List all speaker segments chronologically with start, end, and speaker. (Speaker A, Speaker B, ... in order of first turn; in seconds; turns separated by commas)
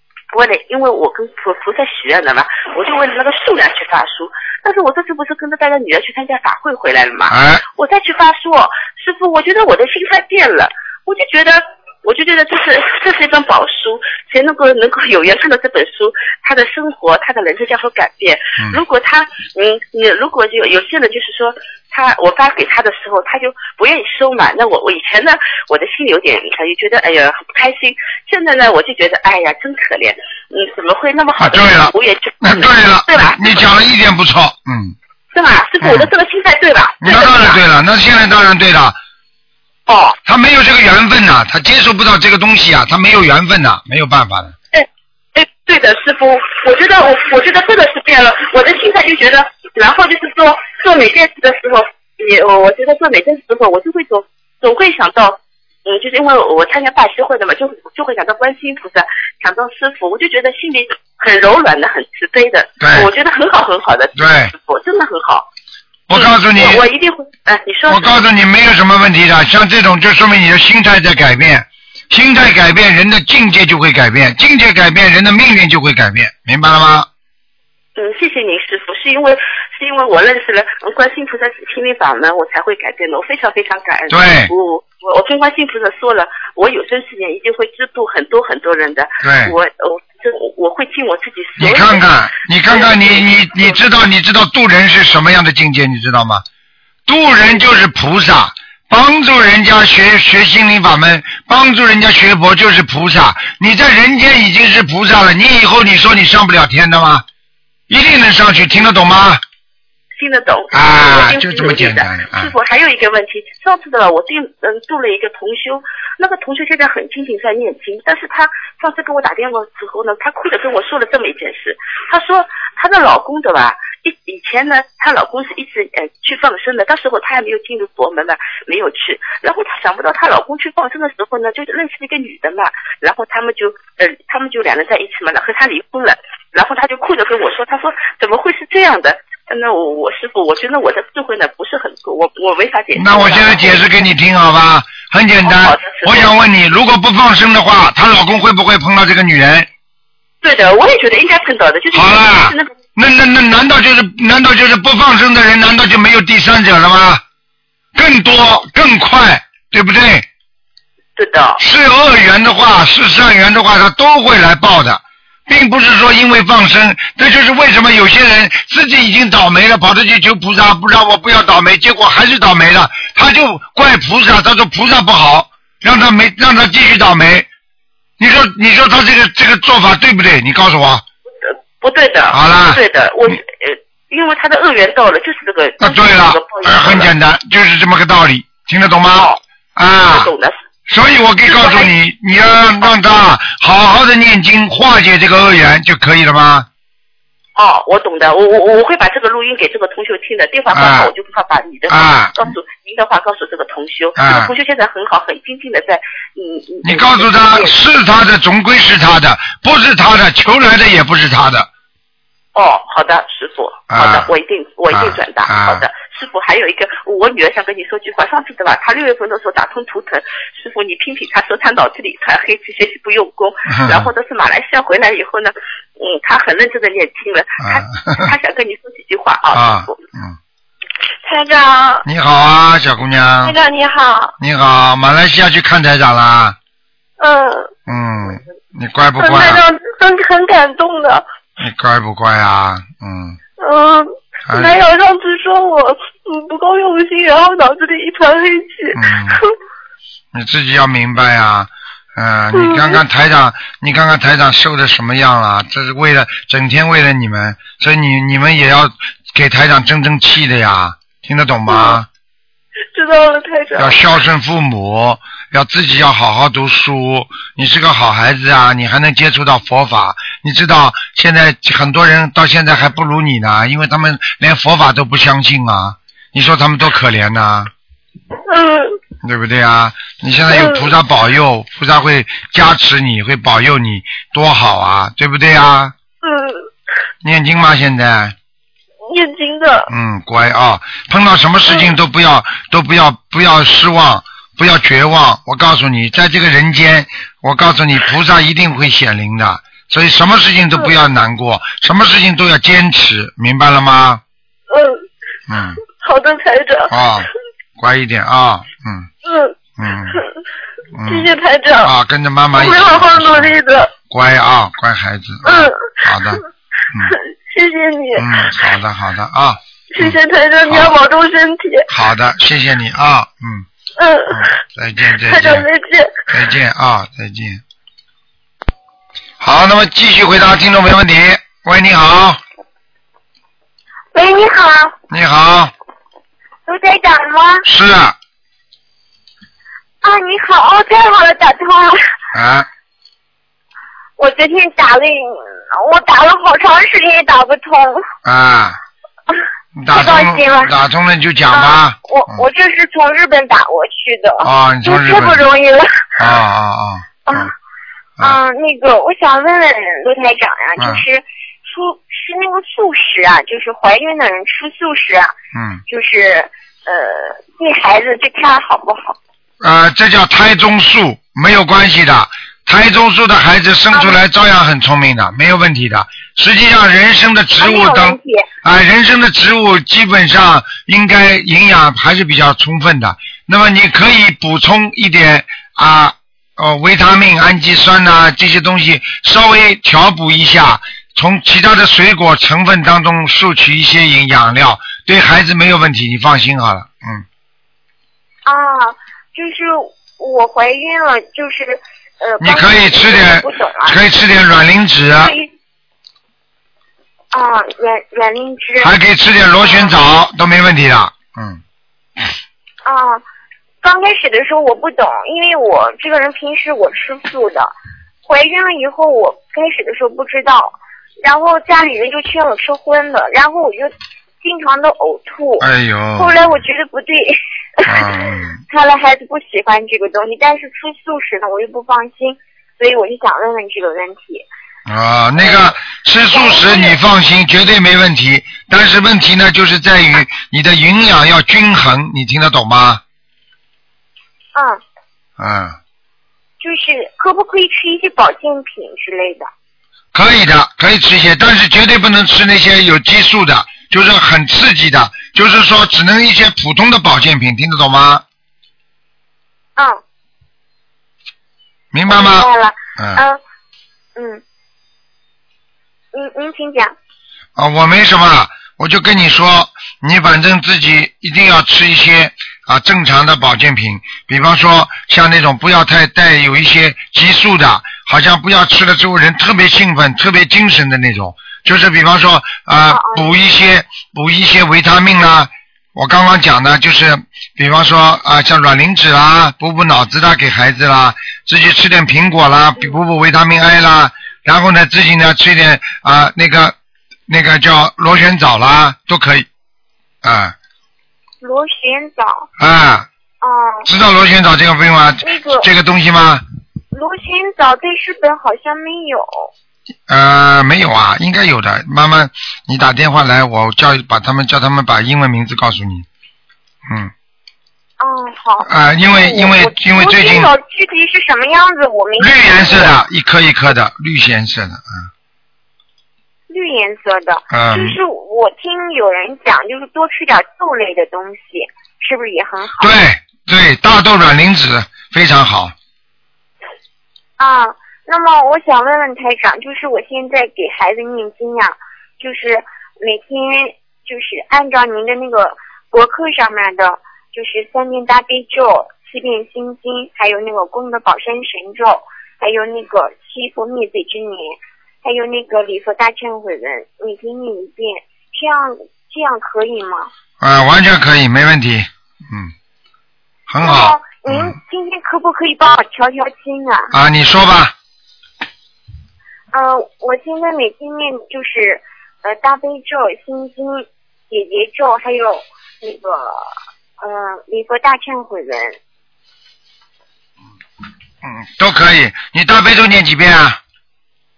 Speaker A: 0.3-33.6, Speaker B: 7.3-7.6, Speaker B: 31.4-34.9, Speaker A: 35.3-37.6, Speaker B: 35.8-36.1, Speaker B: 37.0-39.0, Speaker A: 39.9-40.2, Speaker B: 40.2-44.5, Speaker A: 44.7-65.5, Speaker B: 62.8-63.1, Speaker B: 64.2-64.5, Speaker B: 66.1-66.8, Speaker A: 66.1-68.2, Speaker B: 67.9-77.1, Speaker A: 78.0-92.1, Speaker B: 84.1-84.5, Speaker B: 89.2-89.5, Speaker B: 91.6-96.4, Speaker A: 92.7-93.8, Speaker B: 97.1-107.2, Speaker B: 107.9-109.4, Speaker A: 110.2-144.0, Speaker B: 110.7-112.5, Speaker B: 142.9-149.7, Speaker A: 145.4-146.3, Speaker A: 150.4-152.7, Speaker B: 151.9-157.2, Speaker B: 157.9-160.3, Speaker A: 161.2-161.6, Speaker B: 161.6-177.5, Speaker B: 178.2-181.0, Speaker A: 181.5-187.1, Speaker B: 182.3-183.3, Speaker B: 185.8-190.3, Speaker A: 189.1-189.4, Speaker A: 190.0-190.6, Speaker B: 190.9-196.7, Speaker A: 191.4-191.9, Speaker A: 197.6-207.8, Speaker B: 200.7-201.1, Speaker B: 201.9-202.5, Speaker B: 204.2-204.5, Speaker B: 206.8-211.7, Speaker A: 212.5-230.0, Speaker B: 213.9-214.3, Speaker B: 214.9-215.8, Speaker B: 223.7-224.1, Speaker B: 227.6-228.3, Speaker B: 229.5-230.4, Speaker C: 231.2-232.0, Speaker B: 232.0-233.6, Speaker C: 233.4-234.3, Speaker B: 234.4-236.6, Speaker C: 237.2-237.7, Speaker B: 237.9-239.6, Speaker C: 239.2-241.2, Speaker B: 241.6-243.4, Speaker C: 243.6-249.5, Speaker B: 244.4-244.8, Speaker B: 248.9-249.4, Speaker B: 250.3-262.1, Speaker C: 252.5-253.0, Speaker C: 261.7-262.0, Speaker C: 262.9-264.0, Speaker B: 263.8-277.7, Speaker C: 278.5-279.0, Speaker B: 279.2-285.9, Speaker C: 280.5-280.9, Speaker C: 286.2-286.6, Speaker B: 287.2-288.3, Speaker C: 289.0-289.9, Speaker B: 289.9-304.2, Speaker C: 304.7-305.0, Speaker B: 305.5-305.8, Speaker C: 306.0-306.9, Speaker B: 306.9-309.1, Speaker C: 309.2-309.5, Speaker B: 309.8-310.2, Speaker B: 310.9-317.1, Speaker C: 311.1-311.9, Speaker C: 312.6-313.9, Speaker C: 315.4-316.4, Speaker C: 317.1-318.5, Speaker B: 318.1-320.9, Speaker C: 319.9-321.9, Speaker B: 321.9-323.6, Speaker C: 324.0-324.5, Speaker B: 324.3-325.7, Speaker C: 325.2-326.1, Speaker B: 326.3-327.6, Speaker B: 329.4-332.4, Speaker D: 334.1-334.9, Speaker B: 335.1-335.7, Speaker D: 336.6-337.6, Speaker B: 337.6-338.1, Speaker D: 340.0-342.0, Speaker B: 342.3-342.7, Speaker D: 344.2-348.1, Speaker B: 348.2-348.8, Speaker B: 349.8-352.4, Speaker D: 349.9-350.7, Speaker D: 351.5-356.2, Speaker B: 354.4-355.4, Speaker B: 356.2-357.5, Speaker D: 357.3-357.5, Speaker D: 358.2-365.3, Speaker B: 360.8-361.0, Speaker B: 365.5-365.8, Speaker D: 365.9-369.2, Speaker B: 369.6-397.2, Speaker D: 373.9-374.2, Speaker D: 377.6-378.5, Speaker D: 398.4-404.0, Speaker B: 402.4-405.3, Speaker D: 405.2-405.5, Speaker D: 407.3-408.9, Speaker B: 408.8-411.6, Speaker D: 409.6-409.9, Speaker D: 412.8-413.2, Speaker D: 413.8-417.7, Speaker D: 418.2-423.9, Speaker D: 424.4-428.1, Speaker B: 425.6-426.4, Speaker B: 427.9-428.6, Speaker D: 428.7-434.4, Speaker B: 434.9-443.0, Speaker D: 436.3-436.9, Speaker D: 444.5-444.8, Speaker B: 445.4-445.8, Speaker D: 446.6-449.5, Speaker B: 450.1-458.2, Speaker B: 461.9-463.2, Speaker D: 462.1-463.4, Speaker D: 464.1-464.4, Speaker D: 466.1-466.9, Speaker B: 467.6-496.7, Speaker D: 482.9-483.3, Speaker B: 497.3-499.5, Speaker B: 500.2-500.5, Speaker D: 501.4-502.5, Speaker B: 502.6-503.1, Speaker D: 503.4-503.9, Speaker B: 503.9-506.4, Speaker D: 505.2-505.7, Speaker D: 506.9-509.5, Speaker B: 510.1-516.1, Speaker B: 516.9-517.1, Speaker D: 518.0-523.0, Speaker B: 518.6-520.5, Speaker B: 522.2-525.1, Speaker D: 526.5-532.9, Speaker B: 527.5-528.0, Speaker B: 532.8-535.7, Speaker D: 537.4-560.1, Speaker B: 560.4-562.5, Speaker B: 563.5-564.6, Speaker D: 563.6-566.9, Speaker B: 566.9-567.7, Speaker D: 569.5-578.8, Speaker B: 581.2-583.6